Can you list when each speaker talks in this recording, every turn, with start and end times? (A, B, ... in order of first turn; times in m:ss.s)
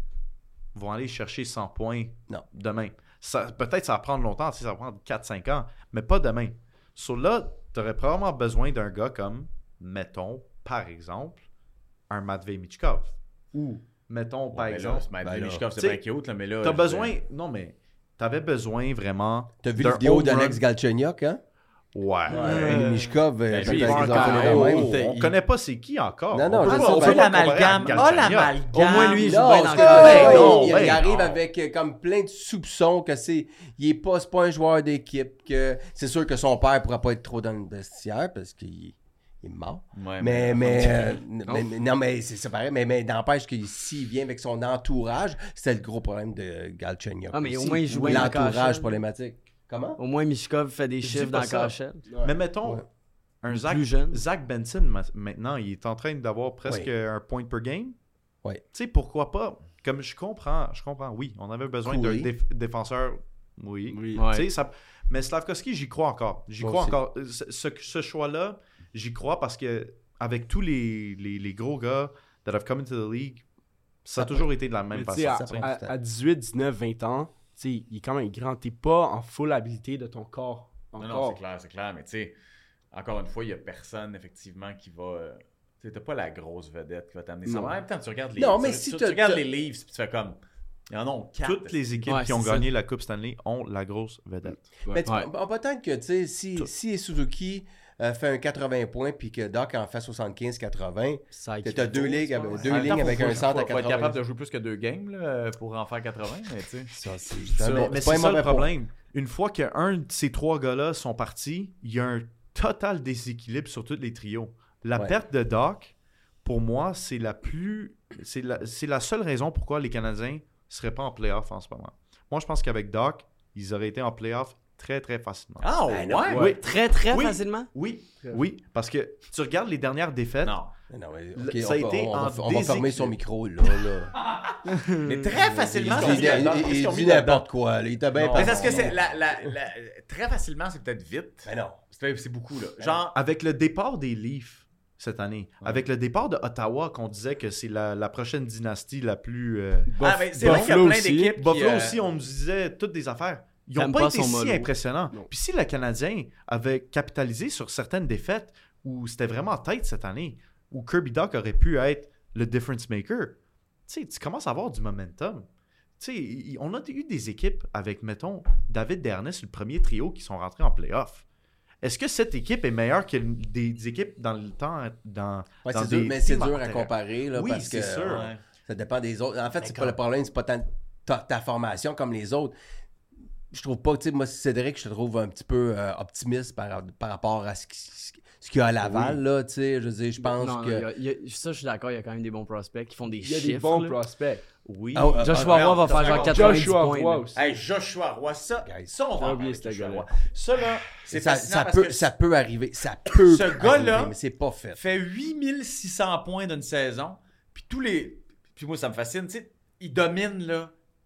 0:00.7-0:11.4 A
0:12.1-0:15.1 A
0:14.5-0:17.2 B
0:15.2-0:15.6 C
0:16.6-0:20.6 A
0:19.6-0:21.4 C
0:21.9-0:22.9 A
0:22.3-0:24.9 C
0:22.4-0:23.2 D
0:23.5-0:25.4 B
0:23.6-0:31.0 A
0:23.9-0:24.6 D
0:26.3-0:28.4 C
0:26.6-0:31.4 B
0:28.8-0:30.8 D
0:29.0-0:50.0 C
0:40.0-0:41.2 B
0:47.3-0:49.0 D
0:50.0-0:52.1 D
0:51.0-0:52.8 A
0:52.1-0:52.4 E
0:53.4-0:58.0 A
0:53.5-0:54.2 D
0:58.7-1:13.4 A
1:01.8-1:02.3 C
1:03.9-1:04.2 E
1:04.1-1:04.5 D
1:06.6-1:07.0 C
1:14.0-1:15.7 A
1:14.2-1:14.5 C
1:14.9-1:21.4 E
1:15.0-1:16.0 C
1:21.0-1:22.3 B
1:22.9-1:32.1 B
1:27.5-1:27.8 C
1:28.4-1:29.4 C
1:31.4-1:34.7 A
1:32.1-1:32.7 D
1:34.9-1:44.2 C
1:41.3-1:42.2 D
1:42.2-1:42.8 E
1:42.6-1:47.0 B
1:42.8-1:43.5 D
1:46.9-1:48.8 C
1:47.5-2:05.7 A
1:47.6-1:47.9 B
2:05.6-2:06.5 B
2:05.9-2:06.4 C
2:06.3-2:10.6 A
2:06.4-2:07.7 D
2:10.4-2:10.7 B
2:10.9-2:14.2 C
2:11.4-2:13.2 A
2:14.8-2:15.4 D
2:15.0-2:17.5 B
2:15.8-2:19.5 C
2:15.8-2:16.4 A
2:18.2-2:23.2 B
2:18.2-2:19.0 A
2:21.4-2:21.8 C
2:23.1-2:45.5 A
2:29.9-2:31.3 E
2:30.0-2:32.0 B
2:33.8-2:34.7 D
2:46.0-2:51.2 A
2:51.8-2:58.3 A
2:55.6-3:02.5 C
2:58.0-2:58.4 B
2:59.6-3:00.0 A
3:03.5-3:10.9 C
3:10.3-3:14.0 D
3:13.2-3:14.4 E
3:14.6-3:15.7 A
3:14.9-3:16.3 C
3:15.2-3:17.3 D
3:15.3-3:16.7 B
3:16.2-3:17.5 E
3:17.3-3:22.1 B
3:18.6-3:18.9 C
3:19.2-3:20.1 E
3:21.1-3:24.8 C
3:23.1-3:24.2 B
3:24.8-3:30.7 B